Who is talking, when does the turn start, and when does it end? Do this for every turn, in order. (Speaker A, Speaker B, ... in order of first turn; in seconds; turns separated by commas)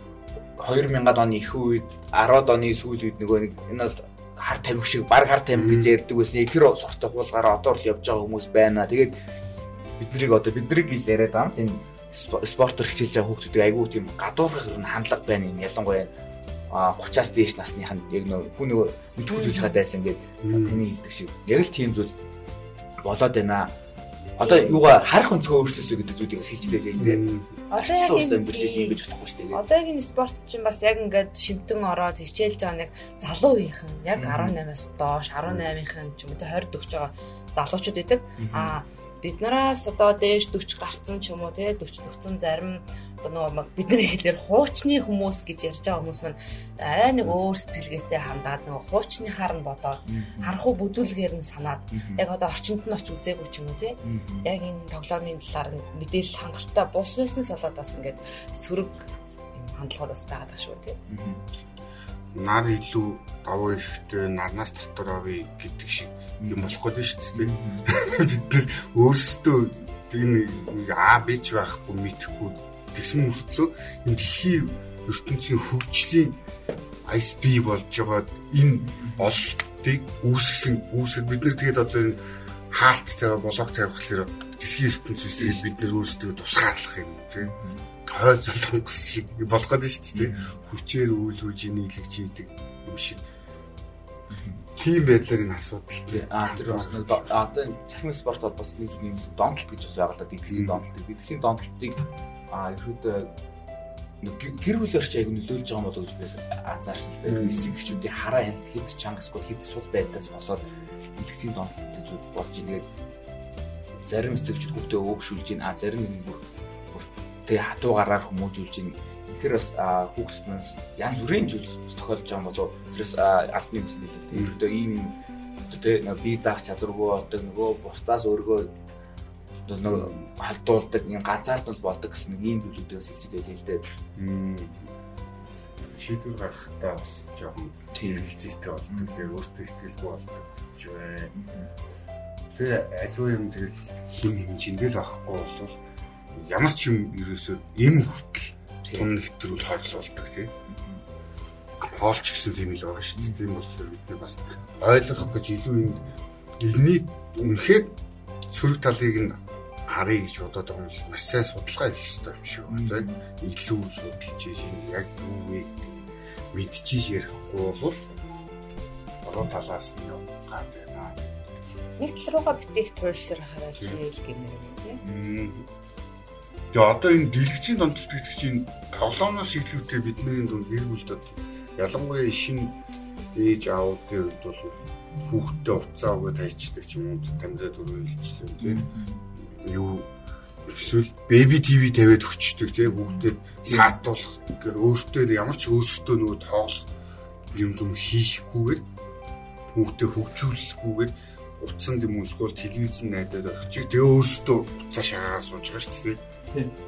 Speaker A: 0.6-9.1, Speaker B: 5.5-5.9, Speaker A: 10.0-16.1, Speaker A: 16.7-22.1, Speaker C: 19.3-19.8, Speaker B: 20.4-20.8, Speaker A: 23.0-23.7, Speaker A: 24.4-29.6, Speaker C: 24.4-24.8, Speaker B: 27.0-27.5, Speaker C: 27.7-29.0, Speaker C: 29.5-59.0, Speaker A: 34.1-34.5, Speaker A: 38.4-38.7, Speaker A: 50.1-50.6, Speaker A: 51.9-52.2, Speaker A: 54.0-54.5, Speaker C: 59.5-61.0, Speaker A: 61.1-61.4, Speaker B: 62.3-76.4, Speaker A: 67.3-67.9, Speaker B: 77.0-87.5, Speaker A: 78.9-79.3, Speaker A: 85.4-85.6, Speaker A: 87.4-87.8, Speaker B: 88.0-93.2, Speaker A: 90.1-90.6, Speaker A: 94.3-94.6, Speaker B: 94.7-97.3, Speaker A: 96.1-103.3, Speaker B: 100.5-100.8, Speaker A: 104.2-110.6, Speaker B: 107.2-107.7, Speaker A: 111.2-112.8, Speaker A: 114.0-128.7, Speaker B: 124.3-124.6, Speaker A: 129.7-133.8, Speaker B: 129.9-130.2, Speaker B: 134.2-134.9, Speaker B: 135.8-141.3, Speaker A: 137.9-138.3, Speaker A: 138.9-139.3, Speaker A: 141.3-141.7, Speaker B: 142.5-145.8, Speaker B: 146.3-150.5, Speaker A: 148.8-149.1, Speaker B: 151.8-156.0, Speaker B: 156.6-157.9, Speaker B: 158.5-168.0, Speaker A: 162.7-163.2, Speaker B: 169.2-171.4, Speaker C: 172.0-175.0, Speaker B: 175.0-175.7, Speaker B: 176.7-182.8, Speaker B: 183.3-188.8, Speaker A: 188.6-189.2, Speaker B: 189.4-190.1, Speaker B: 190.7-196.9, Speaker B: 197.5-198.8, Speaker B: 199.7-206.2